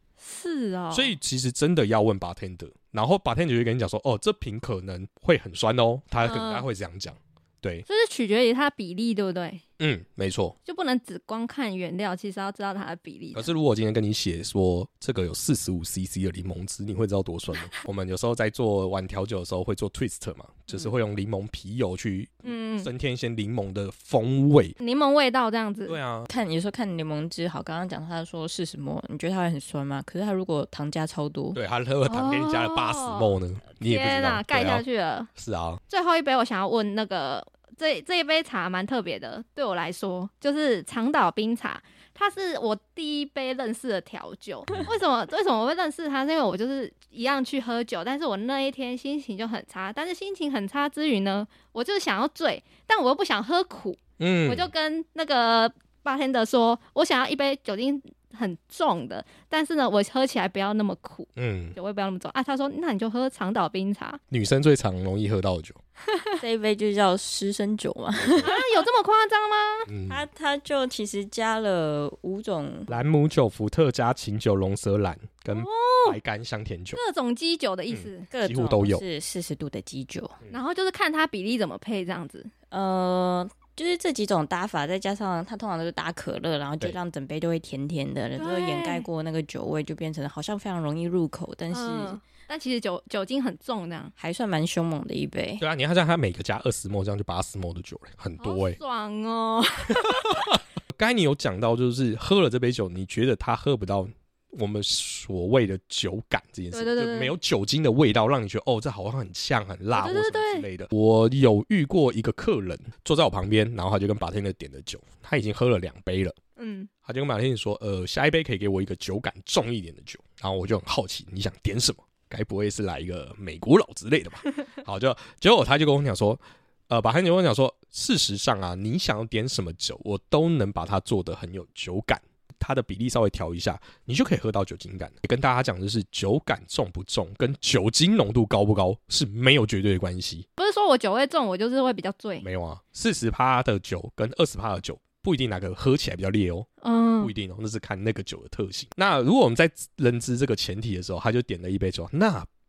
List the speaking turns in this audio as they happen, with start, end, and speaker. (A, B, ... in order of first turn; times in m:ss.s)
0:00.2-0:01.2 A
0:00.9-0:07.9 B
0:06.2-0:06.6 A
0:07.9-0:09.6 A
0:09.8-0:10.6 B
0:10.7-0:13.5 A
0:13.4-0:24.8 B
0:22.4-0:22.9 A
0:24.8-0:26.0 A
0:25.9-0:26.3 B
0:26.3-0:31.6 C
0:31.6-0:34.8 B
0:32.1-0:35.3 A
0:35.4-0:35.8 B
0:35.9-1:04.2 A
0:54.2-0:54.7 B
1:01.4-1:01.8 B
1:04.3-1:05.8 B
1:06.1-1:06.4 A
1:06.4-1:08.6 C
1:08.2-1:08.5 B
1:08.4-1:09.9 A
1:09.9-1:10.2 B
1:10.1-1:12.9 C
1:12.9-1:17.0 B
1:15.5-1:16.2 A
1:16.9-1:18.3 A
1:17.9-1:19.0 B
1:18.3-1:20.4 C
1:20.5-1:22.5 A
1:22.7-1:32.2 C
1:28.4-1:29.1 A
1:31.7-1:34.1 A
1:34.2-1:35.6 C
1:35.6-1:38.8 B
1:38.4-1:40.4 A
1:40.1-1:56.4 B
1:46.7-1:47.4 A
1:49.9-1:50.7 A
1:56.6-1:56.9 A
1:57.0-2:20.5 B
2:20.6-2:22.5 A
2:22.4-2:26.7 B
2:26.8-2:27.3 A
2:27.2-2:32.5 B